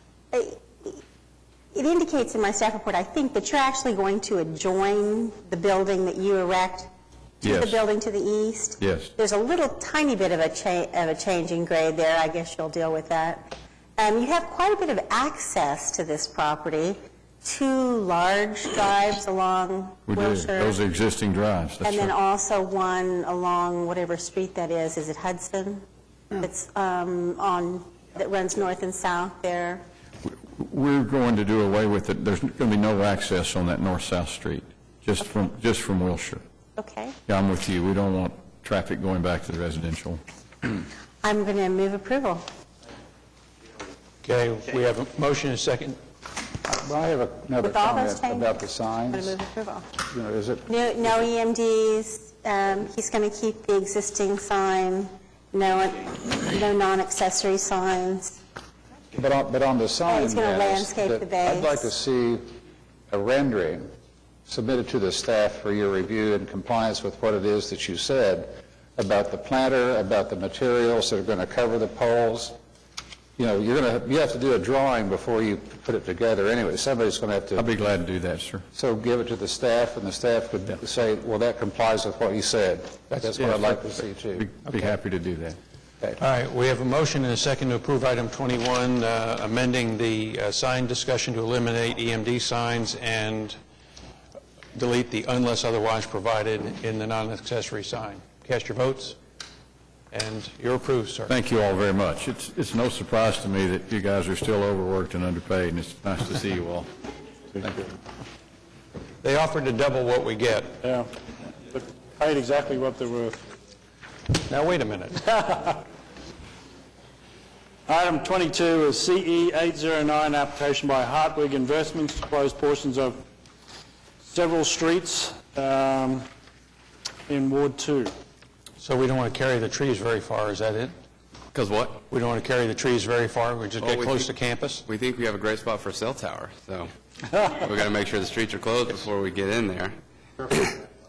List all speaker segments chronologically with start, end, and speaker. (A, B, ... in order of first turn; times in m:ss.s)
0:00.3-0:01.0 A
0:01.7-0:06.9 A
0:07.4-0:20.8 A
0:07.4-0:07.8 B
0:08.8-0:09.1 B
0:20.1-0:22.1 B
0:21.8-0:25.8 A
0:26.4-0:29.8 A
0:30.2-0:36.4 B
0:36.8-0:37.2 A
0:37.3-0:40.2 B
0:41.2-0:42.4 A
0:44.2-0:46.0 C
0:46.6-0:49.4 D
0:47.6-0:50.0 A
0:50.1-0:51.1 D
0:50.7-0:58.4 A
0:59.2-1:02.5 D
1:00.1-1:01.9 A
1:03.1-1:03.9 D
1:04.5-1:12.6 D
1:13.4-1:17.7 D
1:17.6-1:18.6 B
1:18.8-1:24.5 D
1:23.4-1:23.8 B
1:24.4-1:25.6 B
1:26.2-1:33.6 C
1:34.8-1:39.2 C
1:40.1-1:41.3 C
1:41.3-1:46.9 B
1:49.2-1:50.8 C
1:50.8-1:51.1 E
1:51.7-1:53.4 E
1:54.5-1:55.3 C
1:55.3-1:55.7 E
1:57.9-2:03.2 E
2:04.3-2:06.3 E
2:07.3-2:08.1 E
2:08.8-2:10.9 C
2:11.5-2:12.0 F
2:12.1-2:14.8 C
2:13.8-2:14.2 F
2:14.9-2:16.9 F
2:17.5-2:19.9 F